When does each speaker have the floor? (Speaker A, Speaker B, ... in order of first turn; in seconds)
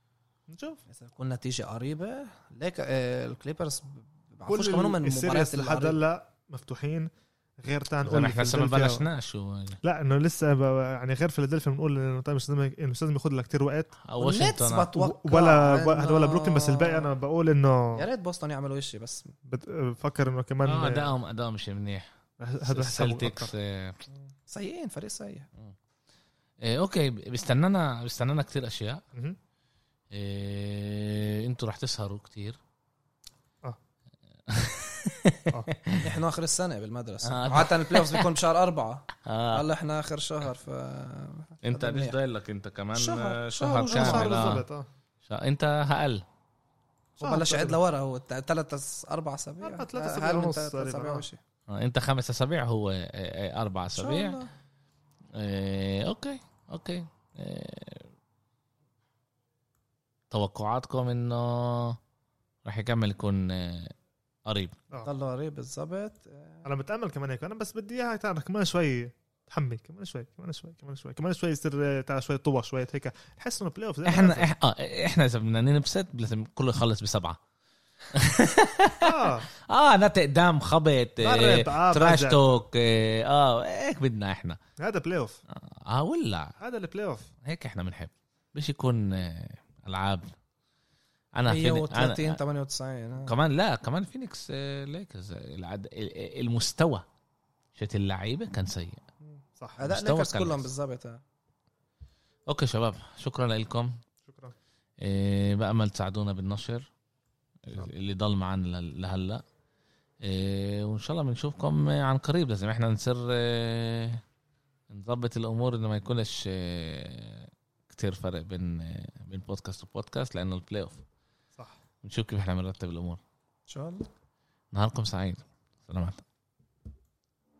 Speaker A: 0.5-0.8, 4.5-9.1, 9.8-14.0, 14.9-18.0, 19.4-21.1, 22.4-23.5, 43.8-44.9, 47.2-47.8, 49.6-51.2, 66.6-74.5, 79.0-79.5, 81.2-82.4, 84.8-85.4, 86.6-87.3, 104.2-104.5
Speaker B: 0.9-6.0, 14.2-17.1, 17.9-19.3, 24.4-25.5, 36.0-42.1, 42.9-44.4, 47.2-51.4, 53.9-54.5, 65.0-66.6, 91.4-93.3, 99.2-101.2, 123.7-124.1
Speaker C: 8.1-9.8, 14.0-14.9, 20.6-22.1, 22.6-24.0, 26.6-29.0, 30.1-32.6, 34.5-36.2, 37.2-38.3, 39.2-39.6, 41.6-44.6, 45.3-46.2, 51.7-54.4, 55.3-58.1, 60.3-62.0, 62.6-63.9, 64.5-64.8, 74.0-77.4, 78.1-84.6, 85.5-86.5, 87.4-90.3, 91.3-92.4, 93.3-97.0, 97.8-99.0, 99.8-100.7, 102.5-104.0, 105.0-106.9, 107.6-109.4, 110.2-114.2, 114.9-121.0, 122.0-123.2, 124.7-126.2